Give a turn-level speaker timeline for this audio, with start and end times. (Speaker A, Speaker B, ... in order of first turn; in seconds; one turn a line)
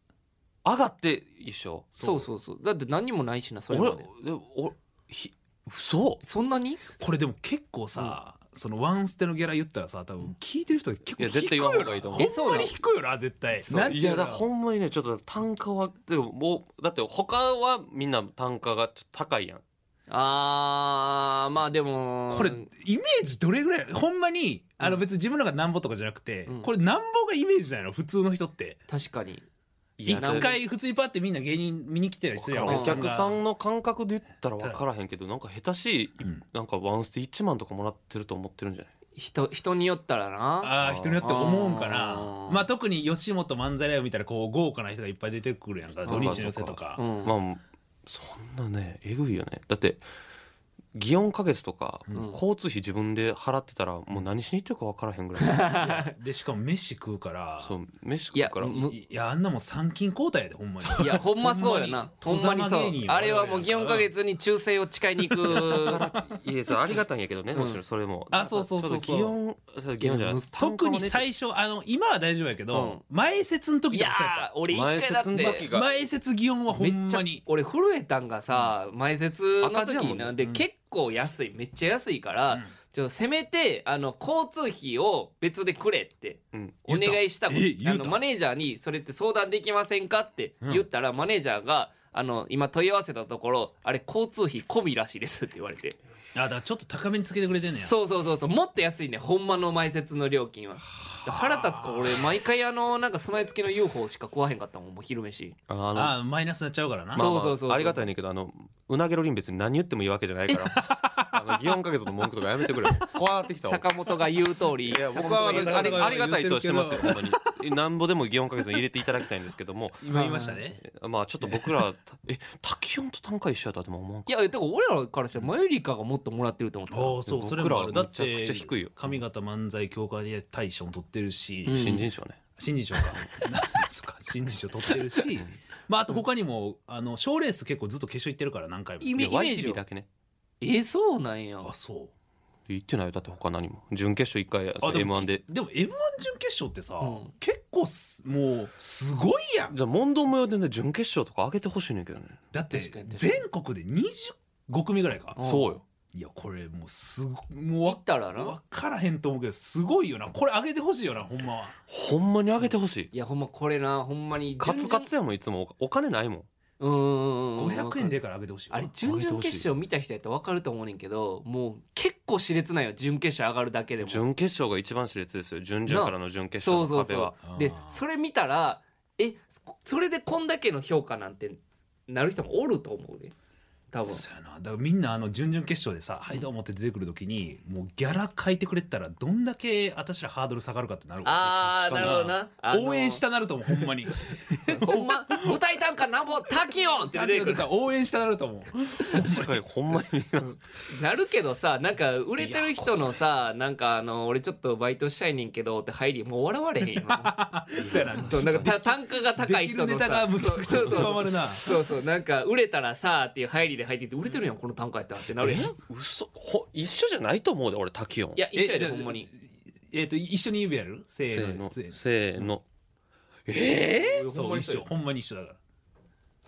Speaker A: 0.6-1.9
Speaker B: 1.9-2.2
Speaker C: 2.0-4.1
Speaker A: 3.7-6.2
Speaker C: 6.2-6.8
Speaker B: 7.0-14.4
Speaker A: 11.2-12.3
Speaker C: 12.2-12.7
Speaker C: 13.6-13.9
Speaker A: 13.9-19.6
Speaker C: 20.1-22.7
Speaker B: 22.3-28.8
Speaker C: 28.9-29.4
Speaker A: 30.0-30.5
Speaker B: 30.1-33.4
Speaker C: 30.1-30.6
Speaker A: 32.4-38.9
Speaker C: 32.6-33.0
Speaker B: 34.6-34.8
Speaker C: 39.1-42.6
Speaker B: 40.6-47.0
Speaker A: 40.8-41.4
Speaker C: 46.0-46.4
Speaker A: 46.0-50.0
Speaker C: 47.0-47.3
Speaker A: 50.9-55.9
Speaker C: 55.4-56.1
Speaker B: 55.8-57.7
Speaker A: 57.6-58.9
Speaker C: 58.3-58.9
Speaker B: 58.9-64.1
Speaker C: 61.0-66.0
Speaker A: 65.5-71.2
Speaker B: 68.3-69.3
Speaker C: 70.0-70.5
Speaker B: 70.5-74.5
Speaker C: 72.7-73.0
Speaker C: 73.9-75.7
Speaker A: 74.7-75.9
Speaker B: 75.3-77.4
Speaker C: 76.7-96.0
Speaker A: 79.6-80.3
Speaker A: 86.5-87.0
Speaker B: 86.9-88.2
Speaker B: 96.3-97.9
Speaker C: 97.8-105.6
Speaker B: 101.2-102.2
Speaker A: 105.7-106.2
Speaker B: 105.9-107.3
Speaker A: 107.1-113.9
Speaker C: 107.2-108.1
Speaker B: 110.6-111.4
Speaker C: 113.6-116.1
Speaker A: 114.8-120.2
Speaker B: 115.4-117.5
Speaker B: 120.0-120.8
Speaker C: 120.1-120.6
Speaker A: 120.8-124.4
Speaker B: 121.4-121.7
Speaker C: 124.3-127.2
Speaker B: 126.9-132.0
Speaker A: 127.3-129.2
Speaker C: 131.7-132.1
Speaker A: 131.7-132.4
Speaker B: 132.6-139.2
Speaker C: 139.0-139.8
Speaker A: 139.2-140.1
Speaker C: 140.6-141.7
Speaker B: 141.6-142.1
Speaker A: 142.7-145.4
Speaker B: 144.8-149.8
Speaker C: 147.0-147.3
Speaker A: 149.7-152.4
Speaker B: 152.5-155.5
Speaker C: 152.7-153.4
Speaker C: 155.4-155.8
Speaker A: 155.4-155.8
Speaker B: 156.1-161.7
Speaker C: 157.8-158.6
Speaker A: 161.9-163.1
Speaker C: 162.6-165.1
Speaker A: 164.6-166.5
Speaker C: 166.8-168.1
Speaker B: 167.6-168.9
Speaker C: 168.7-174.3
Speaker A: 169.0-169.7
Speaker A: 174.0-177.4
Speaker C: 175.9-183.3
Speaker B: 177.4-178.0
Speaker C: 183.9-184.2
Speaker B: 184.0-191.5
Speaker C: 191.2-193.2
Speaker A: 191.4-192.4
Speaker B: 192.7-195.6
Speaker C: 194.6-197.7
Speaker B: 197.1-199.6
Speaker A: 199.1-200.6
Speaker C: 200.4-215.7
Speaker A: 202.4-203.1
Speaker B: 206.9-211.8
Speaker A: 207.8-208.6
Speaker A: 215.4-218.4
Speaker C: 218.3-219.3
Speaker B: 218.5-222.5
Speaker A: 221.2-222.6
Speaker A: 223.5-224.2
Speaker C: 224.0-224.9
Speaker B: 224.1-225.6